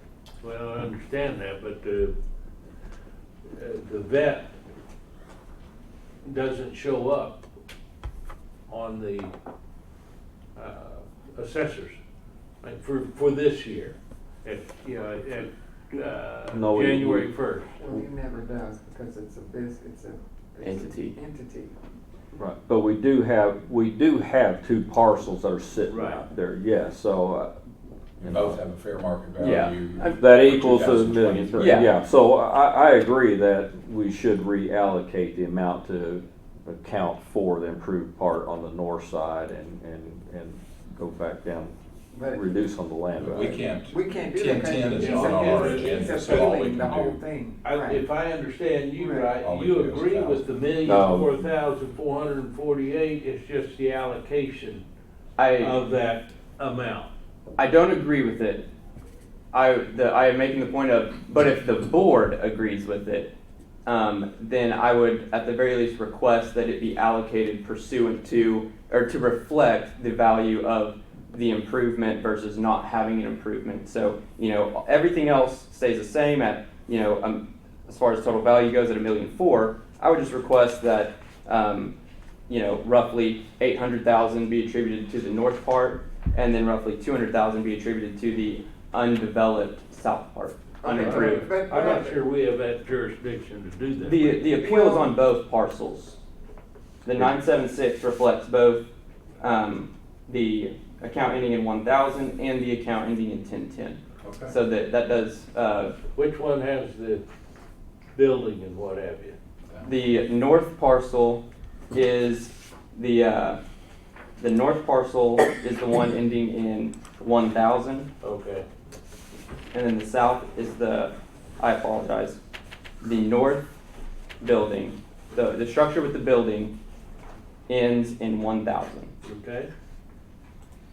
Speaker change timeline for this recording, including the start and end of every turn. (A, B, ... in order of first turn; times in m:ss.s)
0:00.4-0:02.1 A
0:03.5-0:04.5 A
0:06.2-0:07.4 A
0:08.7-0:09.3 A
0:10.6-0:12.0 A
0:12.6-0:17.7 A
0:16.5-0:17.3 B
0:17.8-0:21.7 C
0:20.6-0:21.1 D
0:22.4-0:27.5 B
0:25.9-0:26.2 A
0:28.2-0:31.8 E
0:28.2-0:28.6 B
0:29.4-0:30.2 D
0:30.2-0:41.7 B
0:31.6-0:31.9 D
0:42.1-0:42.5 C
0:42.3-0:43.6 B
0:43.2-0:47.2 E
0:43.9-0:48.0 C
0:44.9-0:46.5 A
0:47.6-0:54.8 A
0:49.0-0:49.4 C
0:49.4-0:50.5 E
0:50.8-0:51.3 B
0:55.4-0:55.8 D
0:55.6-0:57.1 A
0:57.6-0:58.6 D
0:59.5-1:03.3 D
1:03.8-1:21.9 D
1:22.5-1:31.5 D
1:30.8-1:32.2 C
1:30.9-1:34.4 A
1:34.0-1:36.2 D
1:34.6-1:35.1 C
1:37.0-1:38.8 D
1:39.4-1:45.9 D
1:44.2-1:44.5 E
1:46.1-1:47.2 A
1:48.1-1:49.4 A
1:49.8-1:53.6 D
1:54.4-1:58.1 D
1:58.2-1:58.6 A
1:59.7-2:02.4 D
2:03.0-2:03.7 D
2:04.4-2:06.7 D
2:07.7-2:09.1 D
2:09.2-2:09.7 A